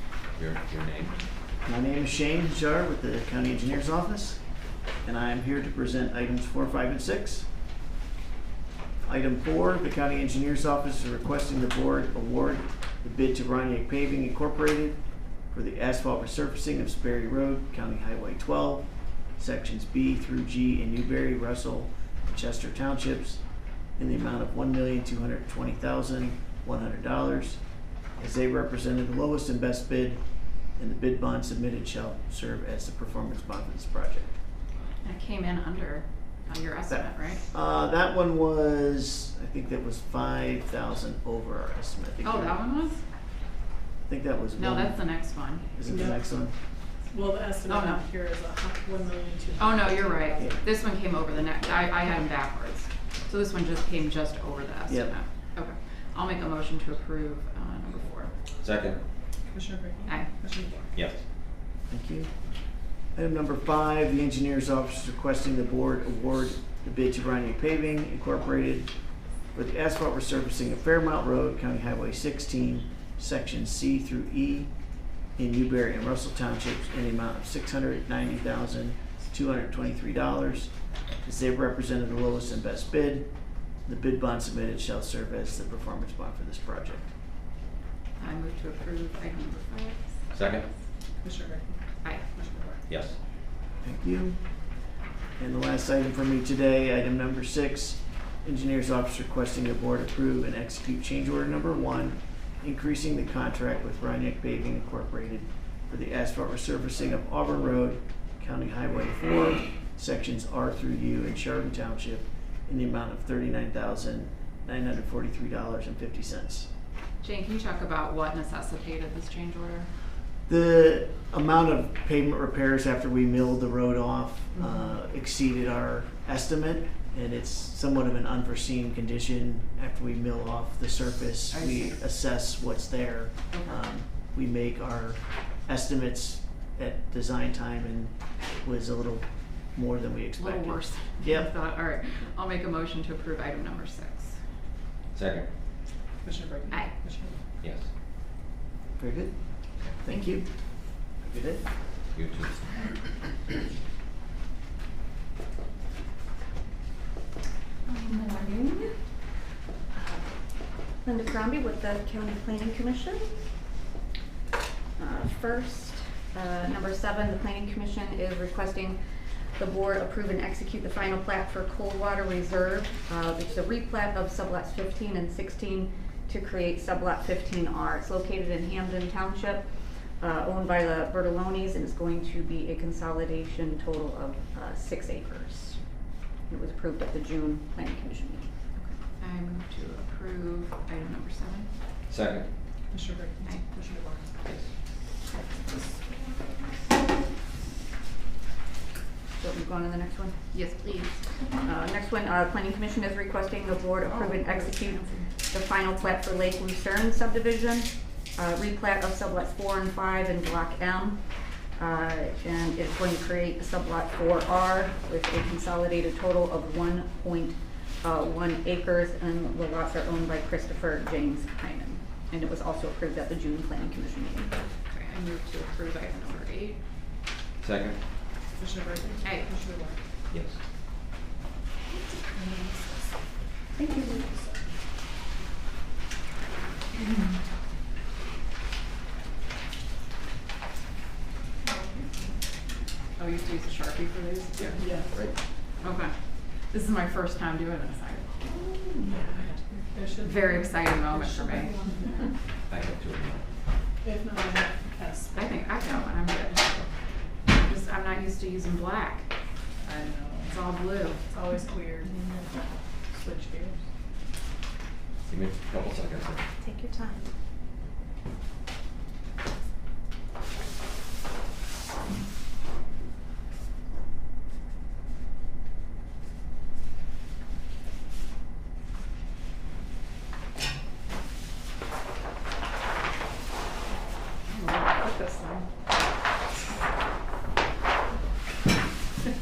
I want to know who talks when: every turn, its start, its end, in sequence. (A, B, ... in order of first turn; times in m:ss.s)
0:00.3-0:01.2 A
0:01.6-0:07.5 B
0:09.0-0:15.0 B
0:15.5-0:23.4 B
0:24.0-0:27.6 B
0:28.1-0:34.3 B
0:35.0-0:37.4 C
0:36.9-0:42.6 B
0:42.2-0:43.0 C
0:44.0-0:46.6 B
0:44.5-0:45.7 C
0:45.8-0:46.3 D
0:47.0-0:50.6 D
0:47.6-0:48.1 C
0:49.6-0:58.3 C
0:54.9-0:55.1 B
0:58.6-0:59.0 A
0:59.5-1:00.9 D
1:00.0-1:00.4 C
1:00.9-1:01.2 A
1:01.9-1:02.3 B
1:03.1-1:14.8 B
1:15.3-1:27.1 B
1:28.2-1:30.2 C
1:30.3-1:30.7 A
1:31.2-1:32.8 D
1:32.9-1:33.2 A
1:33.8-1:34.5 B
1:35.4-1:56.7 B
1:57.2-1:59.9 C
2:00.5-2:21.5 B
2:04.6-2:04.8 C
2:11.5-2:12.0 C
2:13.5-2:13.8 C
2:20.4-2:24.4 C
2:25.1-2:25.5 A
2:26.2-2:27.4 D
2:26.7-2:26.9 C
2:27.6-2:27.9 A
2:29.0-2:31.6 B
2:32.1-2:32.6 A
2:37.9-2:38.9 E
2:39.9-2:40.2 E
2:41.0-2:43.3 E
2:45.0-2:49.0 E
2:49.6-2:59.7 E
3:00.2-3:05.8 E
3:06.5-3:08.5 E
3:08.8-3:11.7 C
3:12.1-3:12.5 A
3:12.9-3:14.3 D
3:14.4-3:14.7 A
3:19.4-3:20.4 E
3:20.5-3:21.2 C
3:21.6-3:31.2 E
3:31.8-3:44.5 E
3:44.9-3:46.8 C
3:47.6-3:48.0 A
3:48.6-3:50.0 D
3:49.2-3:49.5 C
3:50.3-3:50.6 A
3:51.9-3:53.1 D
3:53.8-3:54.2 E
3:53.9-3:54.6 D
4:03.2-4:05.0 C
4:04.6-4:05.4 A
4:04.8-4:05.1 D
4:05.8-4:06.1 C
4:06.7-4:08.4 C
4:09.0-4:12.0 D
4:10.2-4:11.8 C
4:12.7-4:13.4 A
4:14.0-4:16.6 D
4:15.3-4:16.7 C
4:17.5-4:19.3 C
4:19.8-4:20.5 D
4:20.4-4:21.2 C
4:21.3-4:22.5 D
4:23.1-4:23.8 D
4:25.3-4:26.5 A
4:44.4-4:45.7 C